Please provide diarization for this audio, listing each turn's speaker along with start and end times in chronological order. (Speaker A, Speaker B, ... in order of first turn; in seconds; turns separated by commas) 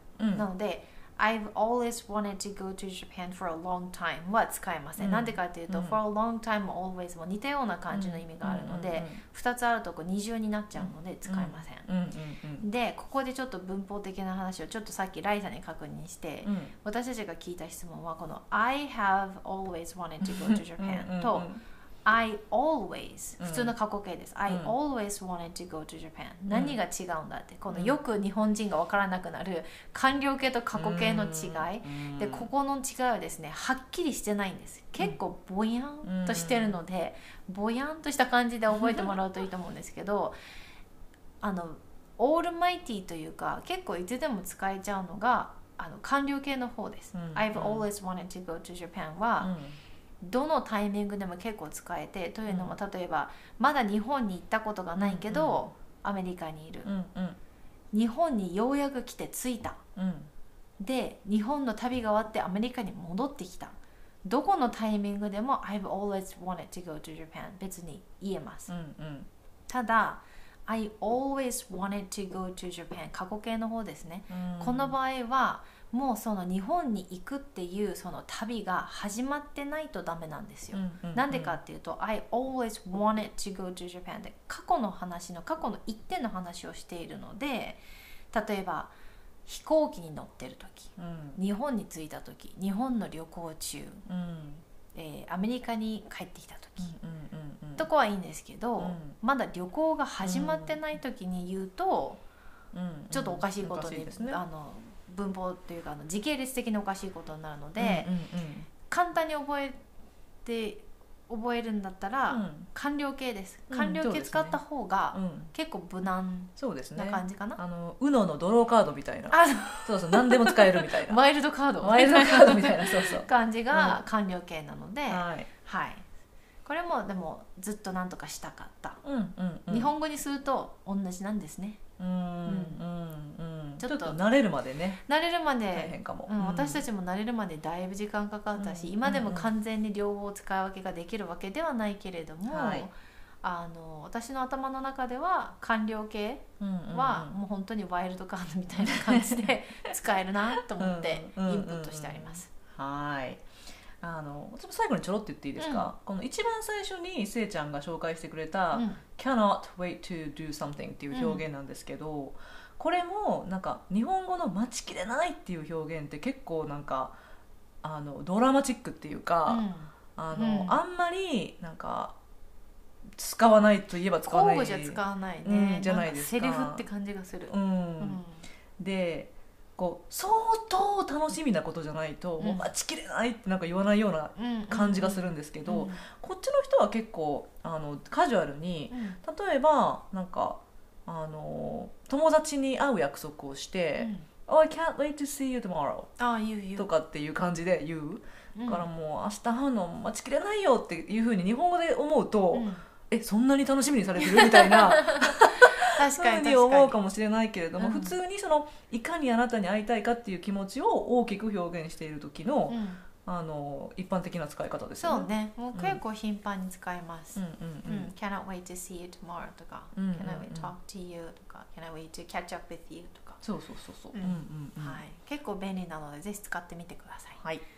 Speaker A: 0.2-0.5, Speaker B: 0.3-11.9, Speaker A: 5.0-6.0, Speaker A: 7.9-9.2, Speaker A: 10.8-12.7, Speaker B: 12.6-21.5, Speaker A: 16.4-16.8, Speaker A: 20.2-21.6, Speaker B: 22.1-40.3, Speaker A: 23.4-23.7, Speaker A: 24.5-24.7, Speaker A: 26.5-26.8, Speaker A: 27.7-28.0, Speaker A: 30.7-32.5, Speaker A: 36.0-36.8, Speaker A: 38.7-39.1, Speaker B: 41.4-49.5, Speaker A: 47.1-47.9, Speaker A: 49.4-49.8, Speaker B: 50.2-56.9, Speaker A: 52.5-52.8, Speaker A: 55.0-55.7, Speaker A: 56.9-57.4, Speaker B: 57.9-59.8, Speaker A: 60.0-60.3, Speaker B: 60.8-68.7, Speaker A: 68.7-69.3, Speaker B: 69.7-88.9, Speaker A: 74.3-75.0, Speaker A: 80.7-81.6, Speaker B: 89.5-94.0, Speaker A: 91.0-91.4, Speaker A: 94.1-94.6, Speaker B: 94.9-96.9, Speaker A: 96.8-97.9, Speaker B: 97.8-102.2, Speaker A: 98.8-99.2, Speaker A: 100.2-100.8, Speaker A: 102.7-104.4, Speaker B: 103.1-108.1, Speaker A: 107.8-108.7, Speaker B: 108.8-109.8, Speaker B: 110.5-117.6, Speaker A: 112.3-112.7, Speaker A: 113.7-114.6, Speaker A: 115.1-115.5, Speaker A: 116.6-121.2, Speaker B: 119.3-126.0, Speaker A: 121.8-124.0, Speaker A: 125.1-125.5, Speaker B: 126.7-129.0, Speaker A: 129.0-129.9, Speaker B: 129.7-131.8, Speaker A: 132.0-135.0, Speaker B: 132.5-132.8, Speaker B: 133.8-134.2, Speaker B: 135.1-152.5, Speaker A: 135.7-136.8, Speaker A: 138.6-139.5, Speaker A: 142.5-142.9, Speaker A: 146.6-147.3, Speaker A: 148.8-149.5, Speaker A: 150.7-153.4, Speaker A: 154.0-167.2, Speaker B: 155.6-155.9, Speaker B: 158.7-159.0, Speaker B: 161.1-161.4, Speaker A: 167.8-169.6, Speaker B: 169.5-170.8, Speaker A: 170.2-172.2, Speaker A: 173.2-176.8, Speaker B: 174.2-178.4, Speaker A: 177.5-178.2, Speaker A: 178.8-196.2, Speaker B: 182.4-182.7, Speaker B: 184.4-186.1, Speaker B: 188.9-189.2, Speaker B: 194.0-194.3, Speaker B: 196.2-196.9, Speaker A: 196.8-216.0, Speaker B: 198.6-198.9, Speaker B: 202.5-202.8, Speaker B: 204.2-207.0, Speaker B: 207.8-208.1, Speaker B: 212.7-213.0, Speaker B: 215.0-223.4, Speaker A: 217.3-218.1, Speaker A: 219.9-220.7, Speaker A: 223.4-225.0, Speaker B: 224.1-227.4